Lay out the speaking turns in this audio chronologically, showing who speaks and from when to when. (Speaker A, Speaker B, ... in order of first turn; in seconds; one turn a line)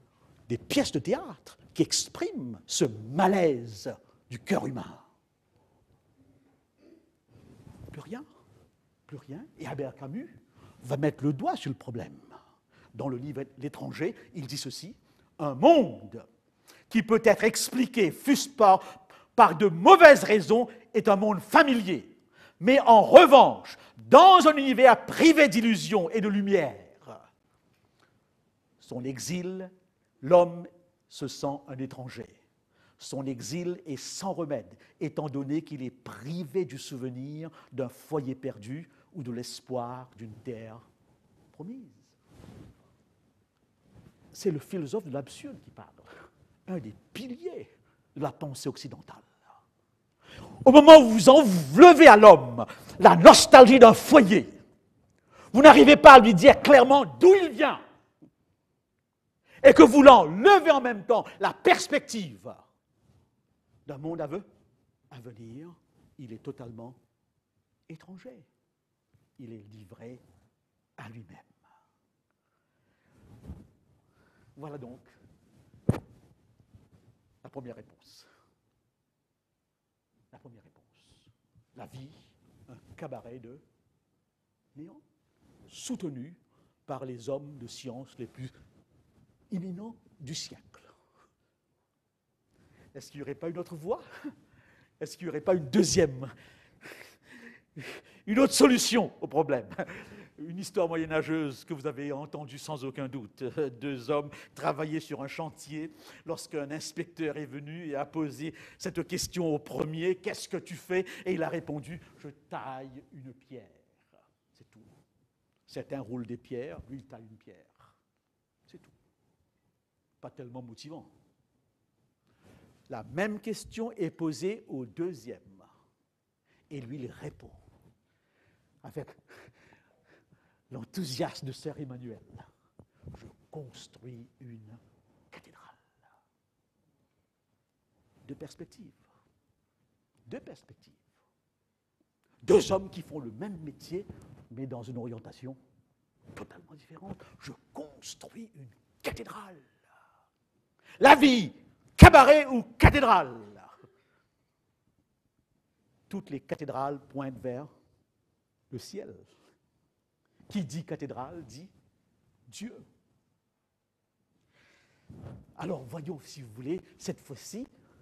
Speaker A: 0.5-5.0
Speaker A: 7.9-8.2
Speaker A: 9.1-12.3
Speaker A: 12.9-16.2
Speaker A: 16.9-27.2
Speaker A: 28.8-29.7
Speaker A: 30.2-32.4
Speaker A: 33.0-40.8
Speaker A: 41.5-42.1
Speaker A: 44.3-46.1
Speaker A: 46.7-49.3
Speaker A: 50.6-54.6
Speaker A: 55.5-57.8
Speaker A: 59.6-62.6
Speaker A: 63.9-64.5
Speaker A: 65.1-67.0
Speaker A: 67.9-68.5
Speaker A: 69.4-70.2
Speaker A: 71.0-71.5
Speaker A: 74.5-75.1
Speaker A: 77.4-78.3
Speaker A: 80.3-83.6
Speaker A: 84.7-85.0
Speaker A: 85.7-88.5
Speaker A: 89.5-90.9
Speaker A: 92.9-94.0
Speaker A: 95.0-96.3
Speaker A: 97.8-113.8
Speaker A: 114.5-114.9
Speaker A: 115.7-117.9
Speaker A: 120.2-121.1
Speaker A: 122.9-125.7
Speaker A: 126.7-127.6
Speaker A: 128.8-129.5
Speaker A: 130.7-132.5
Speaker A: 133.1-134.8
Speaker A: 135.3-135.8
Speaker A: 138.2-139.0
Speaker A: 140.3-141.0
Speaker A: 142.4-145.6
Speaker A: 146.3-149.7
Speaker A: 151.0-153.7
Speaker A: 156.1-157.7
Speaker A: 158.7-159.3
Speaker A: 160.5-161.7
Speaker A: 162.5-162.8
Speaker A: 165.6-167.7